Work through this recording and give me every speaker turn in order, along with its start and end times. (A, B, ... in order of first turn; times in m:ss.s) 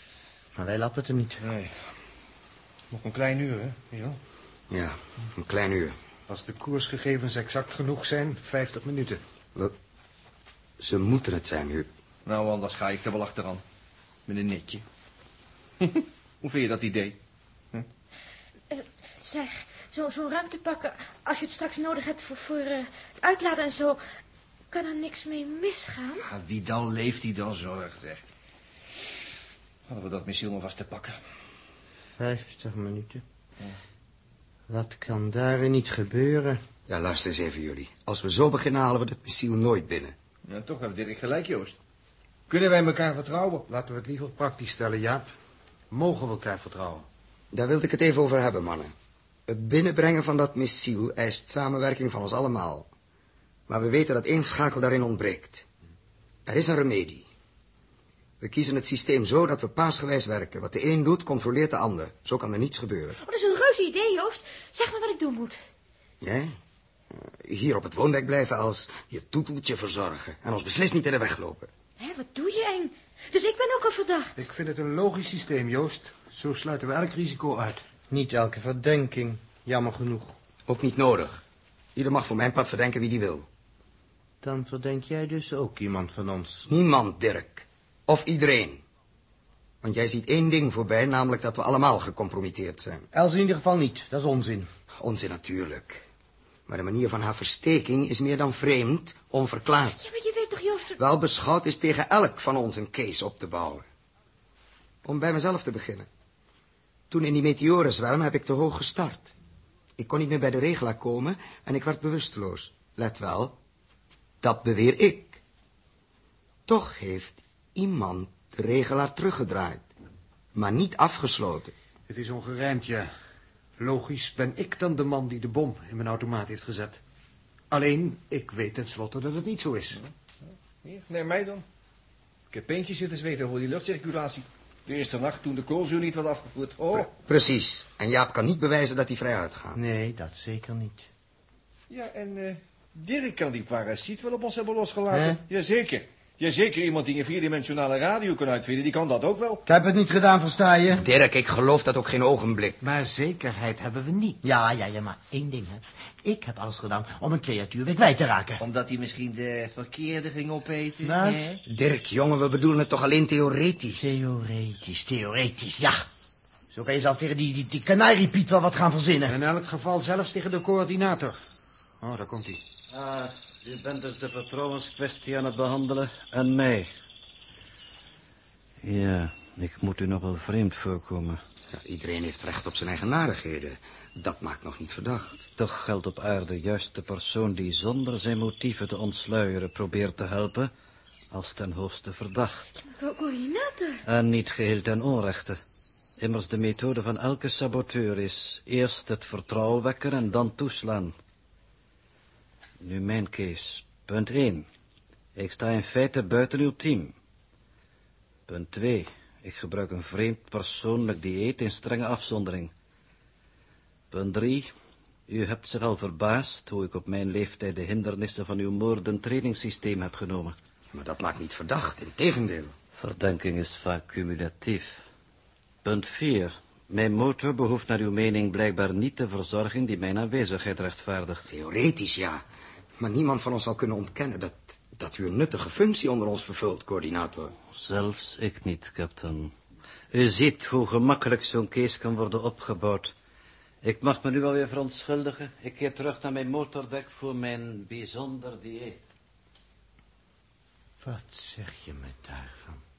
0:00.6-0:01.4 A
0:01.4-0:01.7 B
0:02.9-0:04.2 B
0:04.7-0:05.9 C
0:06.3-0:09.2 D
0:10.8-0:11.9 C
0:12.2-0:13.6 B
0:14.3-0:14.8 B
0:16.4-0:17.2 B
0:18.7-0:24.0 E
0:24.7-0:26.2 E
0:26.2-0:28.2 B
0:29.9-0:31.2 B
0:32.2-0:33.2 A
0:34.7-0:36.6 A
0:36.9-0:40.1 C
0:40.4-0:41.8 B
0:42.5-0:43.6 B
0:43.7-0:45.3 D
0:45.9-0:47.0 D
0:47.5-0:48.9 C
0:49.5-0:52.9 C
0:53.7-0:55.6 C
0:56.4-0:57.3 C
0:58.4-1:03.2 C
1:03.2-1:05.6 E
1:06.2-1:06.5 C
1:07.1-1:11.7 C
1:12.0-1:14.4 E
1:14.4-1:17.8 D
1:18.1-1:20.4 A
1:20.7-1:21.4 C
1:21.9-1:23.5 C
1:24.4-1:26.7 A
1:26.7-1:28.8 C
1:29.8-1:33.0 C
1:33.1-1:34.7 A
1:35.0-1:36.0 C
1:36.7-1:40.0 C
1:39.9-1:41.0 E
1:41.0-1:43.8 C
1:45.0-1:46.1 C
1:47.1-1:49.3 C
1:50.0-1:53.6 C
1:54.4-1:55.4 C
1:56.6-1:59.9 C
2:00.5-2:01.7 C
2:02.1-2:03.1 D
2:03.8-2:07.0 D
2:07.7-2:10.0 D
2:10.0-2:11.6 B
2:12.5-2:17.1 B
2:17.2-2:19.8 C
2:19.8-2:21.1 A
2:21.9-2:29.6 B
2:25.1-2:25.4 A
2:29.6-2:31.0 A
2:31.0-2:32.8 C
2:32.8-2:34.4 D
2:34.4-2:38.6 A
2:38.6-2:41.6 B
2:41.0-2:41.5 A
2:41.7-2:44.1 C
2:44.0-2:46.0 A
2:46.7-2:49.3 A
2:49.3-2:51.4 D
2:52.0-2:52.6 D
2:52.9-2:56.9 F
2:58.8-3:01.4 F
3:01.7-3:05.5 C
3:05.6-3:10.7 F
3:11.3-3:12.6 F
3:12.8-3:14.0 E
3:14.0-3:15.6 F
3:16.2-3:21.1 F
3:22.8-3:24.7 F
3:25.4-3:27.1 F
3:28.5-3:32.7 F
3:34.1-3:34.7 F
3:35.3-3:40.6 F
3:40.9-3:42.7 C
3:42.9-3:45.0 F
3:45.8-3:51.5 F
3:51.4-3:52.4 C
3:53.0-3:57.6 C
3:57.7-3:59.5 F
4:00.1-4:03.1 F
4:03.8-4:09.0 F
4:11.0-4:12.8 A